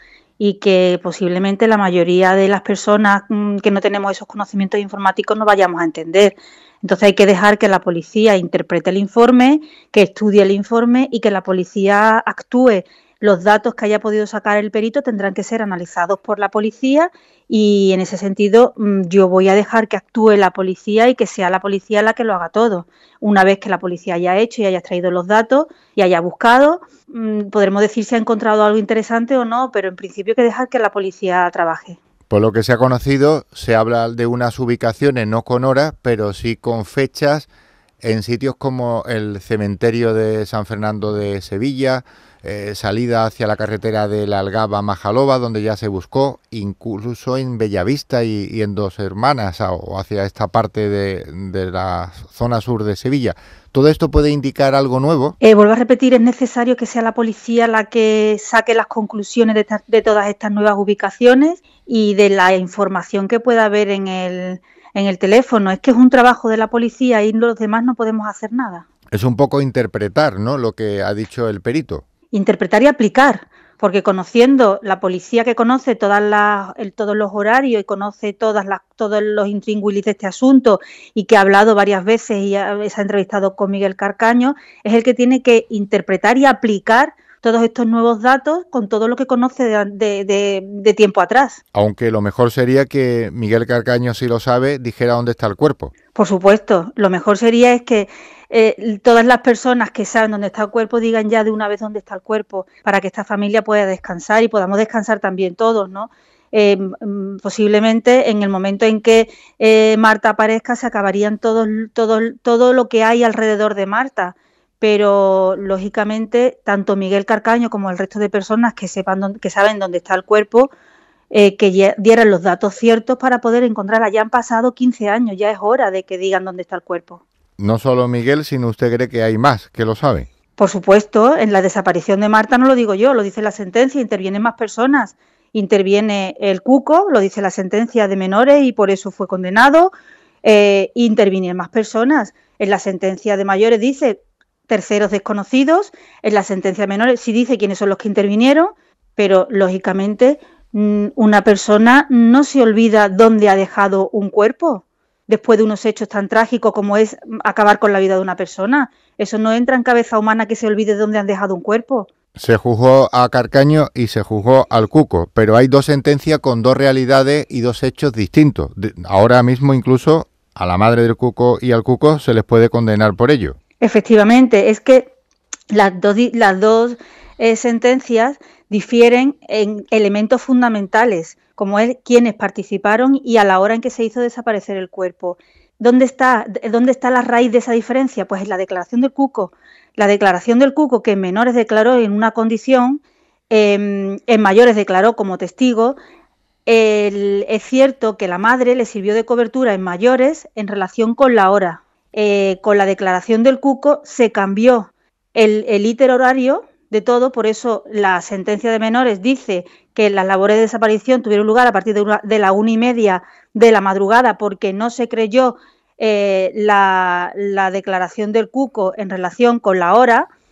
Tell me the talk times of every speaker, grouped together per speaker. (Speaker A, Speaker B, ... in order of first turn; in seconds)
Speaker A: 0.4-32.0, 55.4-68.8, 72.3-91.6, 96.2-120.7, 121.3-127.2, 130.6-162.1, 173.8-175.1, 175.7-196.0, 196.7-220.3
Speaker B: 32.3-37.5, 38.0-55.4, 69.1-72.0, 91.7-95.9, 127.6-130.3, 162.4-173.6